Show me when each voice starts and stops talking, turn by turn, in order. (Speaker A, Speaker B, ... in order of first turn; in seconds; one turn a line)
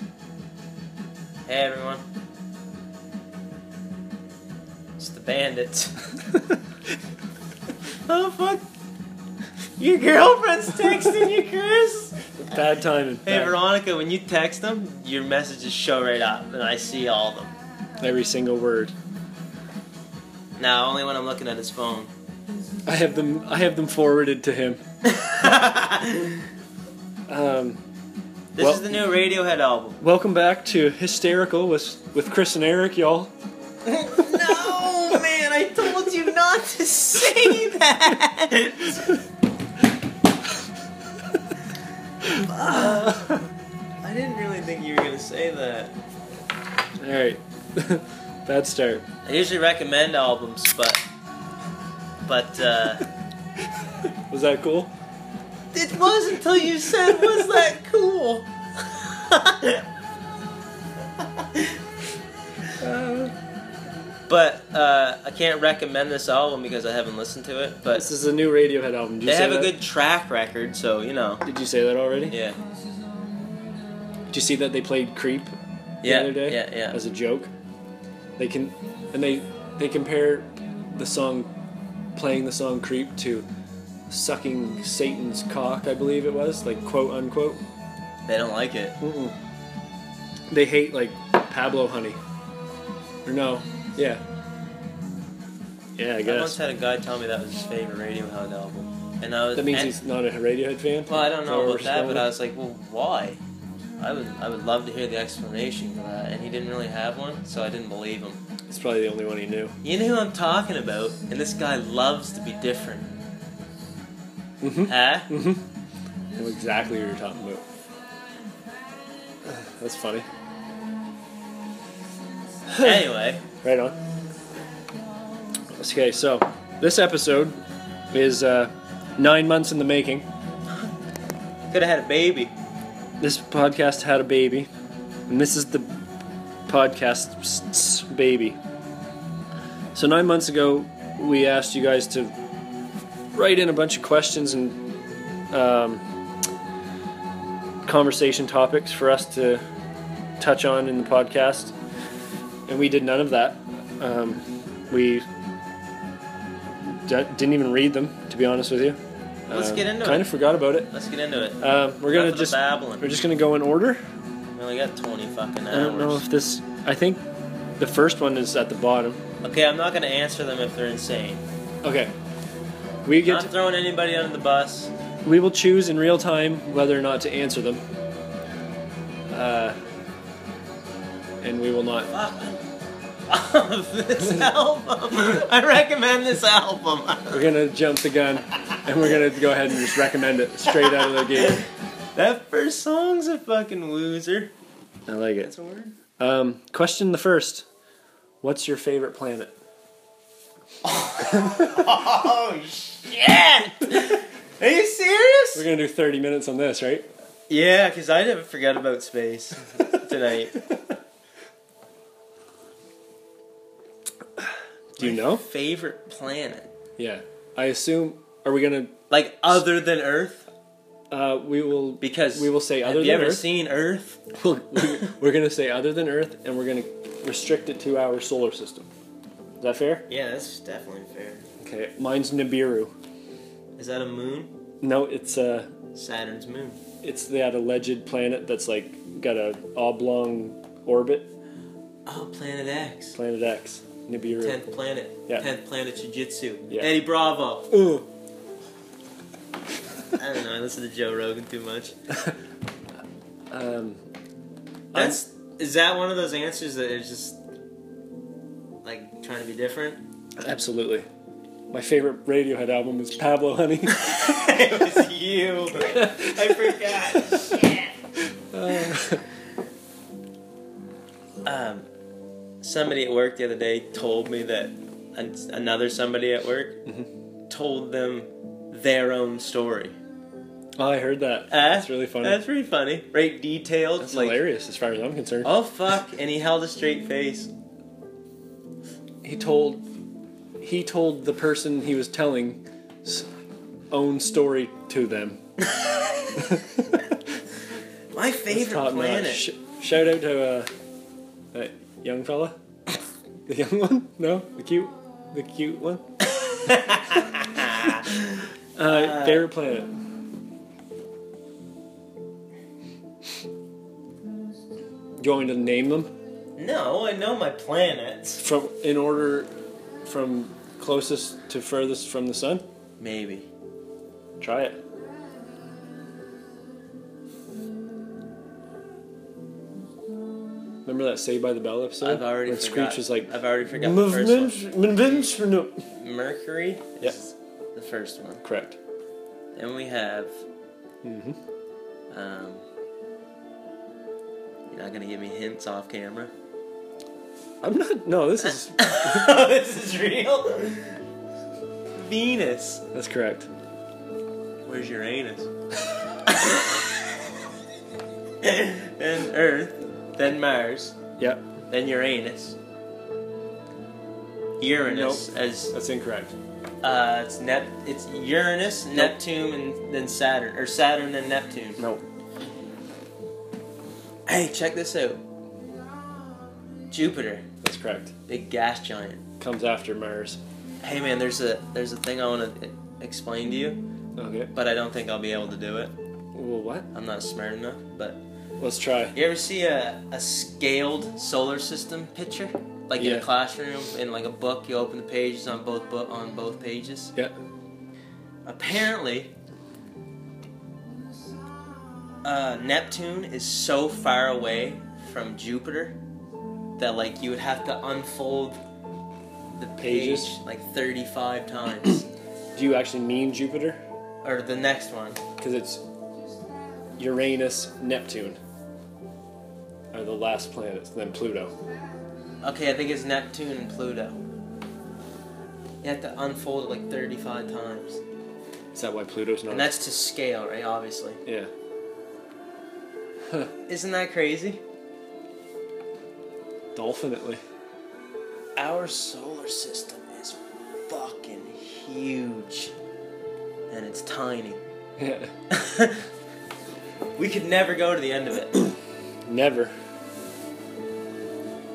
Speaker A: 1.5-2.0
Speaker A: 5.0-6.0
Speaker A: 8.1-8.6
Speaker A: 9.8-12.2
Speaker B: 12.4-13.6
Speaker A: 13.2-17.5
Speaker B: 18.0-18.9
Speaker A: 20.6-22.1
Speaker B: 22.9-24.8
Speaker A: 25.0-26.4
Speaker B: 27.3-27.8
Speaker A: 28.6-30.0
Speaker B: 28.6-28.9
Speaker B: 30.0-33.3
Speaker A: 33.8-39.1
Speaker B: 42.3-43.4
Speaker A: 42.3-43.4
Speaker A: 44.0-45.9
Speaker B: 47.0-49.0
Speaker A: 49.2-51.0
Speaker A: 52.2-53.0
Speaker B: 54.0-54.9
Speaker A: 55.7-59.8
Speaker A: 61.2-61.8
Speaker B: 62.8-63.3
Speaker A: 64.3-68.1
Speaker B: 67.9-69.7
Speaker A: 69.2-71.4
Speaker B: 71.4-72.3
Speaker A: 72.3-72.6
Speaker B: 74.3-77.5
Speaker A: 76.0-77.0
Speaker B: 78.4-81.5
Speaker B: 82.1-83.5
Speaker B: 84.1-87.6
Speaker A: 88.2-89.0
Speaker B: 89.0-89.3
Speaker B: 90.5-92.2
Speaker B: 93.2-94.2
Speaker B: 96.0-96.6
Speaker A: 96.2-100.0
Speaker B: 99.5-102.3
Speaker A: 101.1-103.4
Speaker A: 104.0-108.4
Speaker B: 108.7-109.8
Speaker A: 109.8-113.1
Speaker B: 114.6-115.6
Speaker A: 114.8-115.3
Speaker B: 116.3-117.6
Speaker B: 119.4-120.2
Speaker A: 122.8-123.4
Speaker B: 123.6-124.0
Speaker B: 125.7-127.6
Speaker B: 128.1-130.2
Speaker A: 131.7-132.5
Speaker B: 133.2-134.7
Speaker B: 135.3-136.0
Speaker B: 136.7-138.6
Speaker B: 139.9-142.3
Speaker B: 143.3-144.8
Speaker B: 145.5-146.0
Speaker B: 147.8-149.6
Speaker B: 150.4-151.7
Speaker B: 152.7-155.2
Speaker B: 156.9-160.9
Speaker A: 159.5-163.1
Speaker B: 161.6-164.0
Speaker A: 164.6-166.2
Speaker B: 165.7-167.2
Speaker B: 167.8-169.2
Speaker A: 169.4-171.4
Speaker B: 171.8-172.1
Speaker B: 173.0-173.5
Speaker A: 173.2-174.9
Speaker B: 175.2-177.8
Speaker B: 179.3-179.8
Speaker B: 181.4-182.1
Speaker A: 182.1-182.6
Speaker A: 183.3-187.5
Speaker B: 187.3-191.6
Speaker A: 190.7-194.5
Speaker B: 195.1-195.5
Speaker A: 195.4-195.9
Speaker B: 196.2-197.7
Speaker B: 198.4-199.5
Speaker A: 200.8-205.7
Speaker B: 205.5-207.1
Speaker A: 207.5-210.6
Speaker B: 214.9-215.4
Speaker A: 215.0-216.7
Speaker B: 217.0-218.9
Speaker A: 219.1-220.5
Speaker B: 221.1-223.4
Speaker A: 222.0-224.2
Speaker B: 224.3-228.9
Speaker B: 229.6-230.1
Speaker A: 230.1-231.4
Speaker B: 231.6-232.9
Speaker A: 233.8-234.5
Speaker B: 234.8-235.7
Speaker A: 235.9-236.8
Speaker B: 237.0-241.3
Speaker A: 242.1-243.2
Speaker B: 243.2-244.6
Speaker A: 244.4-247.7
Speaker B: 246.7-246.9
Speaker B: 247.7-248.1
Speaker A: 250.1-251.9
Speaker B: 252.1-252.3
Speaker B: 253.5-254.0
Speaker B: 254.9-255.2
Speaker A: 254.9-257.4
Speaker A: 258.8-260.0
Speaker B: 260.4-261.1
Speaker B: 261.7-264.2
Speaker A: 263.9-267.9
Speaker B: 265.8-267.5
Speaker B: 268.2-269.2
Speaker A: 271.4-271.9
Speaker A: 272.6-276.8
Speaker A: 277.5-279.9
Speaker B: 280.8-282.4
Speaker A: 281.5-284.4
Speaker B: 284.0-285.5
Speaker A: 285.4-287.5
Speaker B: 289.2-289.8
Speaker B: 290.6-293.3
Speaker B: 293.9-295.4
Speaker A: 295.7-296.4
Speaker B: 296.4-297.0
Speaker A: 298.1-299.4
Speaker B: 298.5-300.7
Speaker B: 301.5-302.6
Speaker B: 303.5-306.0
Speaker A: 306.6-309.4
Speaker B: 308.8-309.9
Speaker B: 315.2-316.1
Speaker A: 316.6-318.4
Speaker B: 318.4-319.5
Speaker B: 320.0-322.6
Speaker A: 323.0-323.5
Speaker B: 324.4-324.8
Speaker B: 330.8-335.8
Speaker A: 332.0-335.1
Speaker A: 335.9-338.4
Speaker B: 338.4-338.8
Speaker A: 339.6-340.4
Speaker B: 341.0-341.4
Speaker A: 342.1-342.6
Speaker A: 344.7-346.3
Speaker B: 347.6-349.3
Speaker A: 348.8-350.9
Speaker A: 351.9-352.8
Speaker B: 352.9-353.5
Speaker A: 354.6-355.5
Speaker A: 356.2-356.9
Speaker A: 358.4-360.9
Speaker B: 361.2-361.4
Speaker A: 361.7-362.6
Speaker A: 364.6-365.7
Speaker B: 364.9-366.3
Speaker A: 366.8-371.8
Speaker B: 371.8-372.0
Speaker A: 374.3-375.2
Speaker A: 376.9-377.5
Speaker B: 377.6-378.1
Speaker A: 378.3-379.2
Speaker B: 379.4-380.4
Speaker A: 380.8-383.8
Speaker B: 384.2-384.5
Speaker A: 384.5-385.9
Speaker B: 386.3-386.9
Speaker A: 386.9-388.2
Speaker B: 388.6-389.1
Speaker A: 389.1-397.1
Speaker B: 393.0-393.3
Speaker A: 398.4-399.3
Speaker A: 402.2-406.0
Speaker A: 406.8-408.6
Speaker A: 409.5-412.1
Speaker B: 409.8-410.3
Speaker B: 412.5-413.8
Speaker A: 414.2-415.2
Speaker B: 415.4-415.8
Speaker B: 417.0-418.4
Speaker B: 419.9-421.5
Speaker A: 422.4-424.2
Speaker A: 425.8-428.0
Speaker B: 428.7-429.7
Speaker A: 429.5-431.2
Speaker B: 431.2-431.5
Speaker A: 433.7-434.6
Speaker B: 436.7-437.4
Speaker A: 438.6-442.7
Speaker A: 443.7-444.6
Speaker B: 445.0-445.3
Speaker A: 445.5-446.0
Speaker A: 447.2-448.7
Speaker B: 449.2-449.7